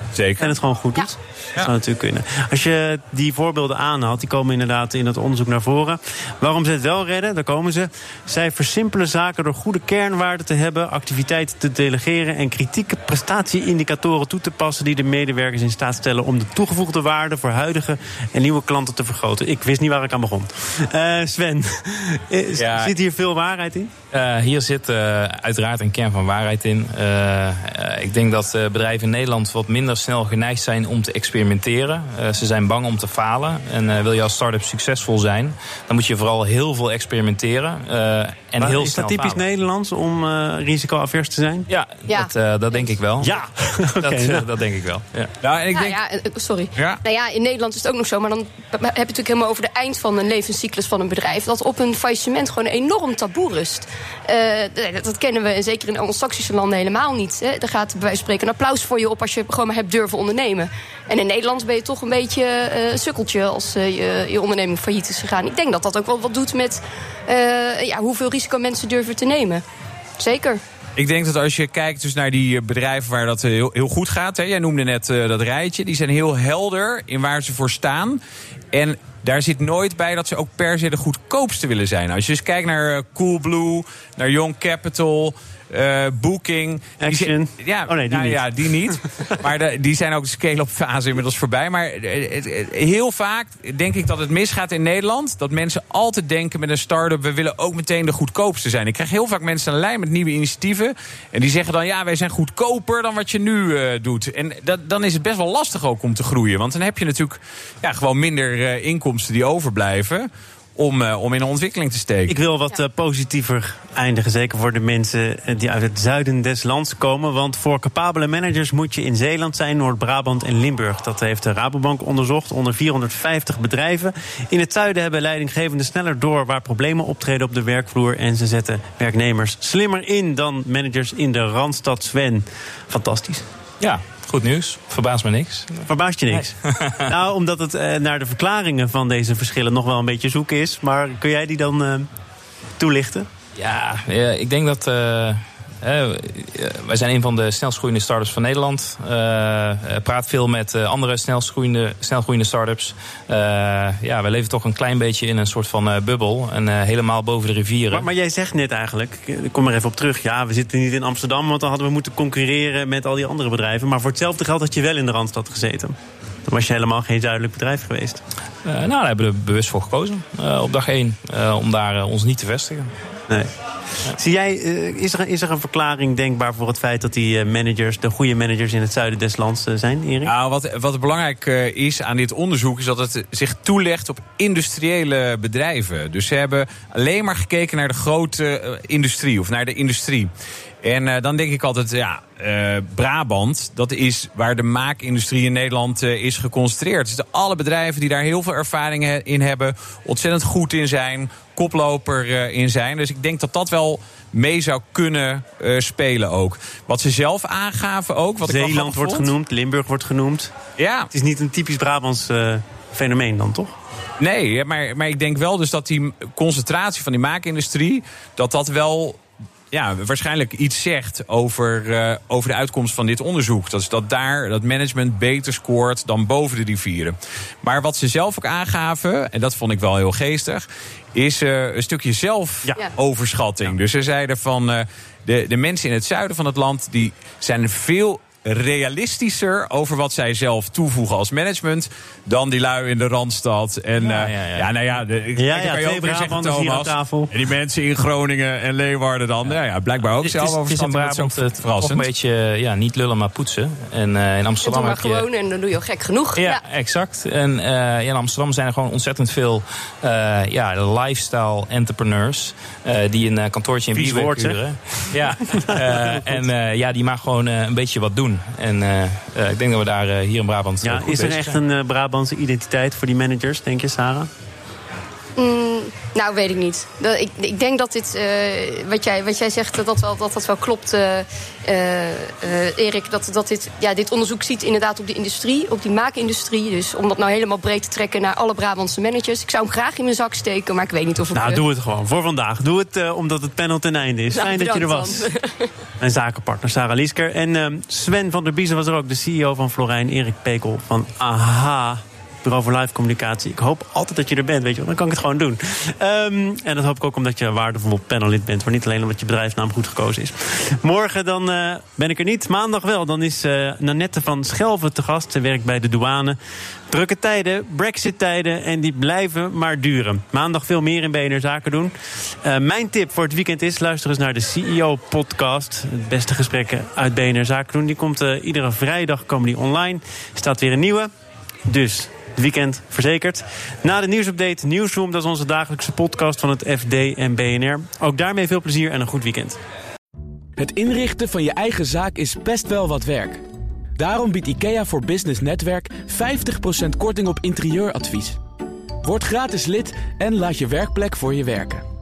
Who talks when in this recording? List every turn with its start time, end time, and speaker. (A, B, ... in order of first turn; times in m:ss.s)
0:00.1-0:00.6 A
0:00.4-0:23.9 B
0:22.5-0:22.9 C
0:24.1-0:39.4 C
0:38.6-0:41.6 B
0:41.7-0:43.3 C
0:42.1-0:42.9 D
0:43.2-0:44.4 B
0:44.0-0:45.3 C
0:45.4-0:46.0 A
0:45.7-1:09.6 D
0:46.8-0:47.0 A
1:10.2-1:10.6 D
1:11.0-1:18.2 A
1:18.7-1:52.4 A
1:27.0-1:29.3 B
1:52.3-2:13.4 B
2:13.8-2:17.0 C
2:15.9-2:22.1 B
2:22.8-2:23.3 B
2:23.6-2:38.1 C
2:37.9-2:48.2 B
2:48.6-2:52.9 C
2:54.1-3:00.3 B
3:00.2-3:10.3 A
3:10.8-3:29.3 A
3:28.4-3:30.5 B
3:30.8-3:31.1 A
3:31.1-3:33.7 B
3:34.2-3:39.2 A
3:39.7-4:12.0 A
4:04.0-4:04.7 C
4:05.4-4:07.3 B
4:10.2-4:15.2 C
4:14.6-4:16.6 D
4:16.4-4:31.6 C
4:23.9-4:26.4 B
4:30.8-4:34.3 B
4:35.4-4:51.6 D
4:51.3-4:55.3 B
4:54.3-4:55.7 D
4:56.0-5:16.4 B
5:16.9-5:21.9 B
5:22.4-5:31.1 B
5:31.6-5:39.6 B
5:40.6-5:43.4 E
5:44.0-5:48.4 E
5:49.0-5:51.8 E